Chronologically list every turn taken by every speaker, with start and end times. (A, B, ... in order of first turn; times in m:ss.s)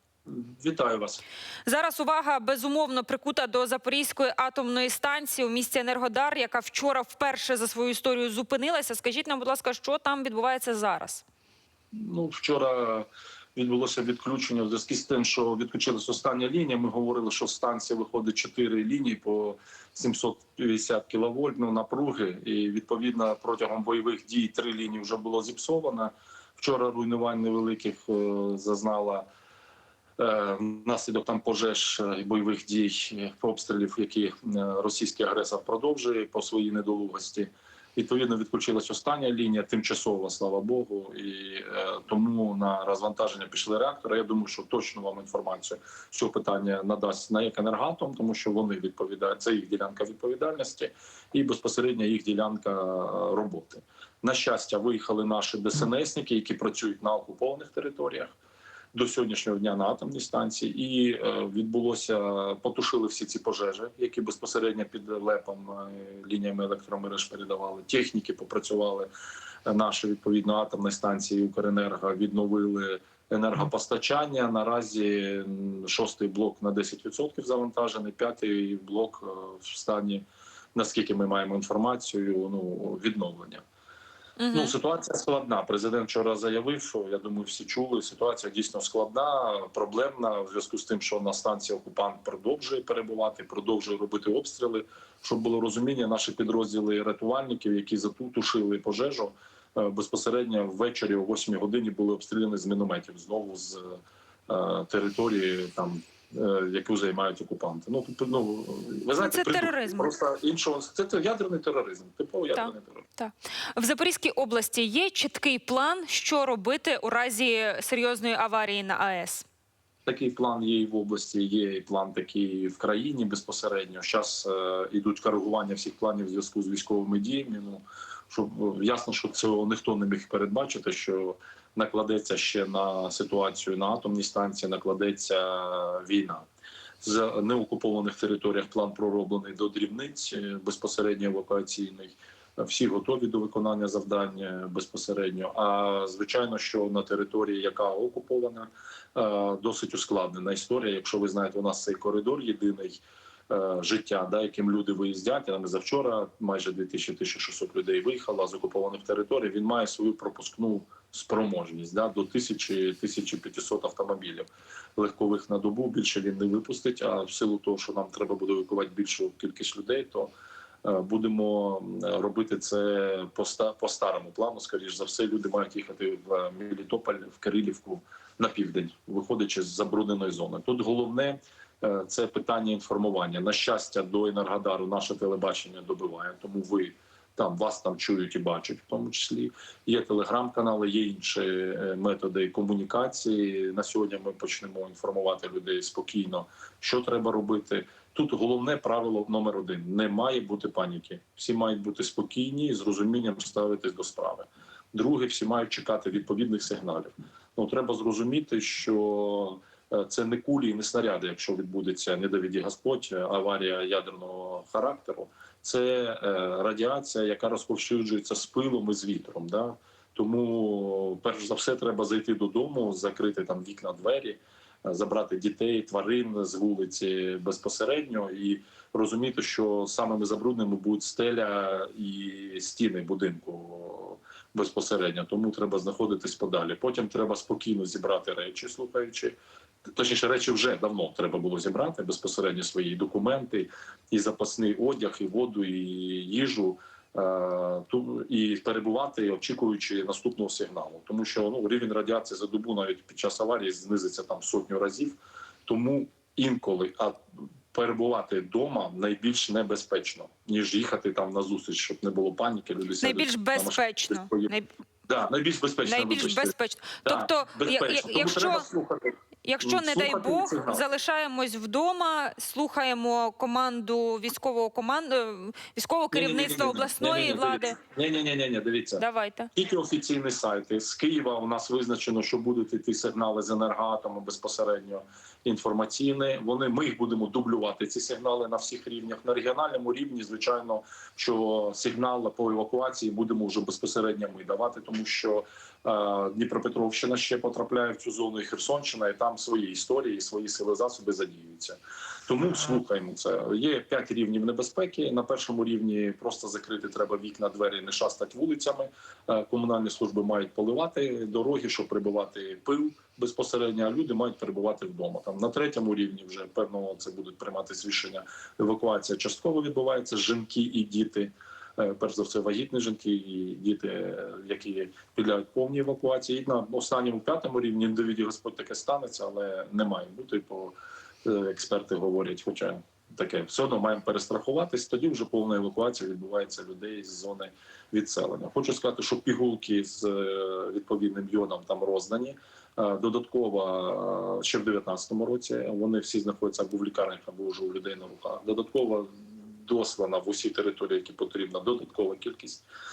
0:00.3-0:01.2 A
0:01.6-0:11.2 B
0:11.9-0:29.2 A
0:30.2-0:58.3 A
0:58.9-1:09.1 A
1:09.6-1:20.2 A
1:20.7-1:23.6 A
1:24.4-1:24.7 B
1:24.5-1:53.0 A
1:49.2-1:50.1 B
1:52.5-1:59.4 B
2:00.0-2:16.4 A
2:17.0-2:50.3 A
2:50.8-3:59.4 A
4:00.0-4:17.2 A
4:17.7-4:24.5 A
4:23.0-4:24.7 B
4:25.1-4:26.5 A
4:25.8-4:28.6 B
4:27.0-4:30.9 A
4:29.4-4:37.8 B
4:36.1-4:39.0 A
4:39.0-4:39.5 B
4:39.5-5:52.6 A